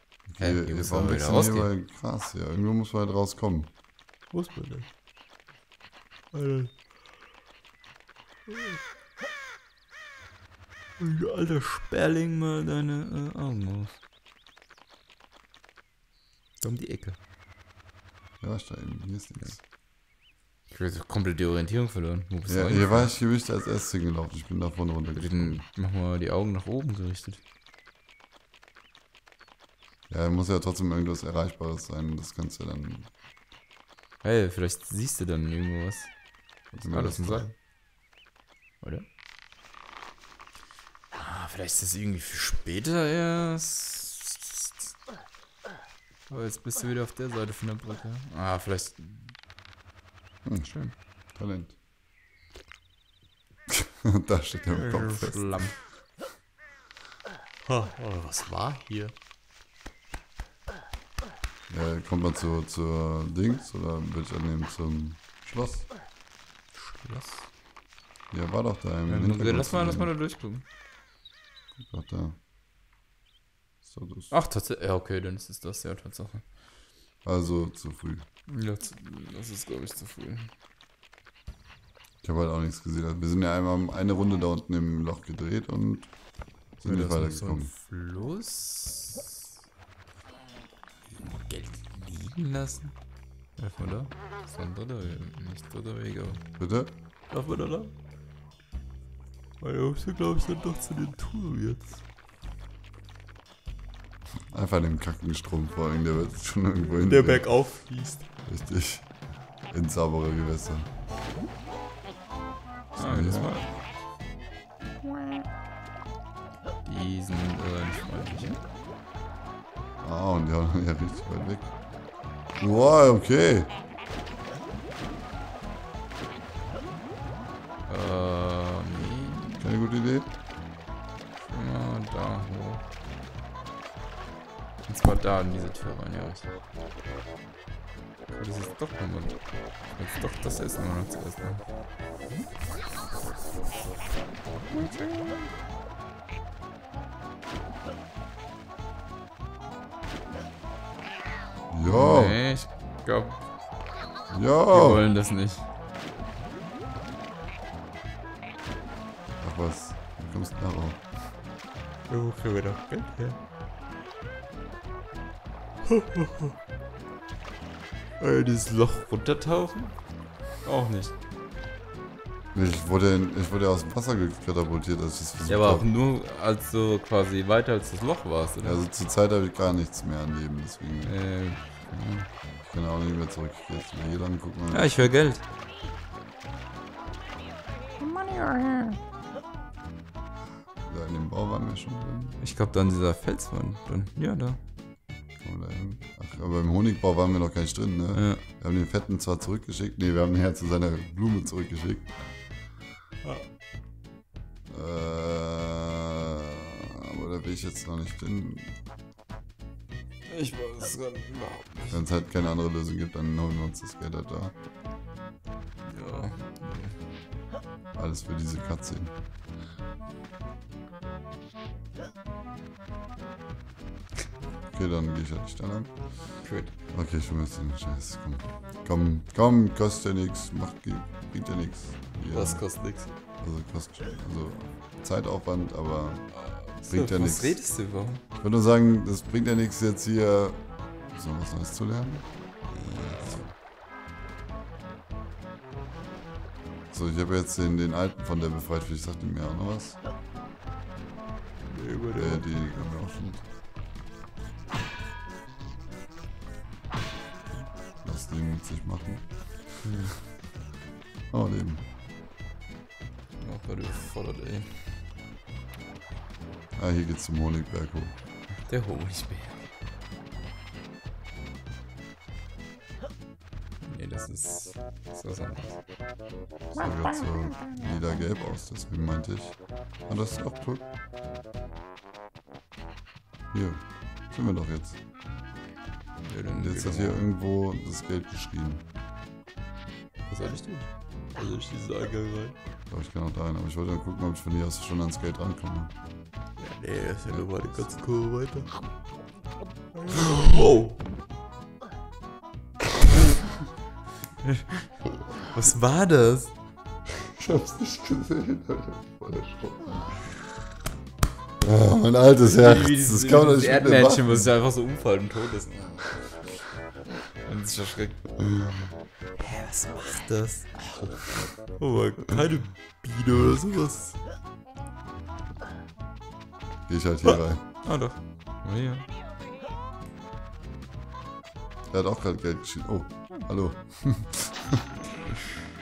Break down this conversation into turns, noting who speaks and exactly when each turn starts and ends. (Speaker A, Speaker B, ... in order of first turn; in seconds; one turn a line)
Speaker A: 0.3-3.7
Speaker B: 0.4-1.7
Speaker B: 4.3-4.9
Speaker B: 6.3-6.9
Speaker B: 8.5-8.8
Speaker B: 11.0-14.0
Speaker B: 16.6-17.2
Speaker A: 18.4-19.6
Speaker B: 20.7-23.1
Speaker A: 22.5-25.7
Speaker B: 25.1-27.4
Speaker A: 30.1-33.1
Speaker B: 34.2-36.1
Speaker A: 36.7-37.5
Speaker B: 36.8-37.5
Speaker B: 41.1-45.0
Speaker B: 46.3-49.4
Speaker A: 50.5-50.7
Speaker B: 50.6-51.0
Speaker A: 51.4-51.8
Speaker A: 53.7-55.8
Speaker B: 54.7-55.9
Speaker B: 57.7-59.1
Speaker A: 61.7-65.9
Speaker B: 66.7-67.5
Speaker A: 68.3-70.1
Speaker B: 69.1-70.6
Speaker A: 71.8-72.4
Speaker A: 73.8-74.3
Speaker B: 74.3-76.4
Speaker A: 77.2-78.2
Speaker B: 78.5-80.5
Speaker A: 82.2-86.1
Speaker A: 86.8-87.7
Speaker B: 86.8-89.3
Speaker B: 91.1-92.9
Speaker B: 93.6-96.4
Speaker A: 96.6-96.9
Speaker B: 97.3-97.9
Speaker B: 99.6-102.0
Speaker A: 104.5-107.6
Speaker B: 107.0-108.3
Speaker A: 108.5-109.1
Speaker A: 109.7-110.9
Speaker A: 113.0-113.5
Speaker B: 113.0-113.7
Speaker B: 115.1-115.4
Speaker B: 116.8-118.6
Speaker A: 120.0-121.7
Speaker A: 122.6-123.7
Speaker B: 127.9-129.7
Speaker A: 129.6-130.3
Speaker B: 131.4-132.8
Speaker B: 134.9-136.5
Speaker B: 138.3-139.4
Speaker B: 139.9-141.7
Speaker B: 144.7-145.5
Speaker A: 151.7-152.4
Speaker B: 151.8-153.4
Speaker A: 154.3-155.0
Speaker B: 154.7-155.7
Speaker A: 159.4-161.0
Speaker B: 162.1-163.4
Speaker B: 165.9-166.5
Speaker B: 168.2-170.0
Speaker B: 170.6-171.2
Speaker A: 172.5-175.9
Speaker B: 175.5-178.8
Speaker A: 178.6-181.2
Speaker B: 181.0-182.3
Speaker A: 182.7-185.1
Speaker B: 184.7-185.4
Speaker B: 188.0-189.0
Speaker A: 190.8-192.4
Speaker B: 192.4-194.6
Speaker A: 195.4-202.1
Speaker B: 198.2-198.4
Speaker A: 204.7-208.8
Speaker B: 210.3-212.0
Speaker A: 211.9-214.5
Speaker B: 215.8-217.0
Speaker A: 217.9-219.1
Speaker A: 224.7-226.3
Speaker B: 226.4-226.7
Speaker A: 226.9-232.7
Speaker B: 232.3-233.2
Speaker A: 233.4-236.3
Speaker B: 236.3-238.2
Speaker A: 236.8-237.6
Speaker A: 238.4-242.3
Speaker B: 242.7-243.5
Speaker A: 243.2-243.4
Speaker A: 246.9-250.0
Speaker B: 251.7-252.8
Speaker A: 252.1-253.4
Speaker A: 258.0-259.3
Speaker B: 259.8-260.2
Speaker A: 261.3-261.8
Speaker B: 263.4-265.0
Speaker A: 266.8-268.2
Speaker B: 268.7-269.7
Speaker B: 273.8-275.8
Speaker A: 276.7-280.9
Speaker A: 283.5-285.0
Speaker B: 286.2-287.2
Speaker A: 286.5-288.9
Speaker B: 290.3-292.6
Speaker A: 292.9-295.9
Speaker B: 296.6-298.7
Speaker A: 297.3-297.9
Speaker B: 299.9-301.0
Speaker B: 304.4-306.5
Speaker A: 307.2-310.4
Speaker A: 311.6-314.6
Speaker B: 312.4-316.0
Speaker B: 317.5-318.2
Speaker A: 318.4-318.9
Speaker B: 319.4-324.2
Speaker A: 326.9-327.6
Speaker B: 327.2-329.1
Speaker A: 331.9-334.9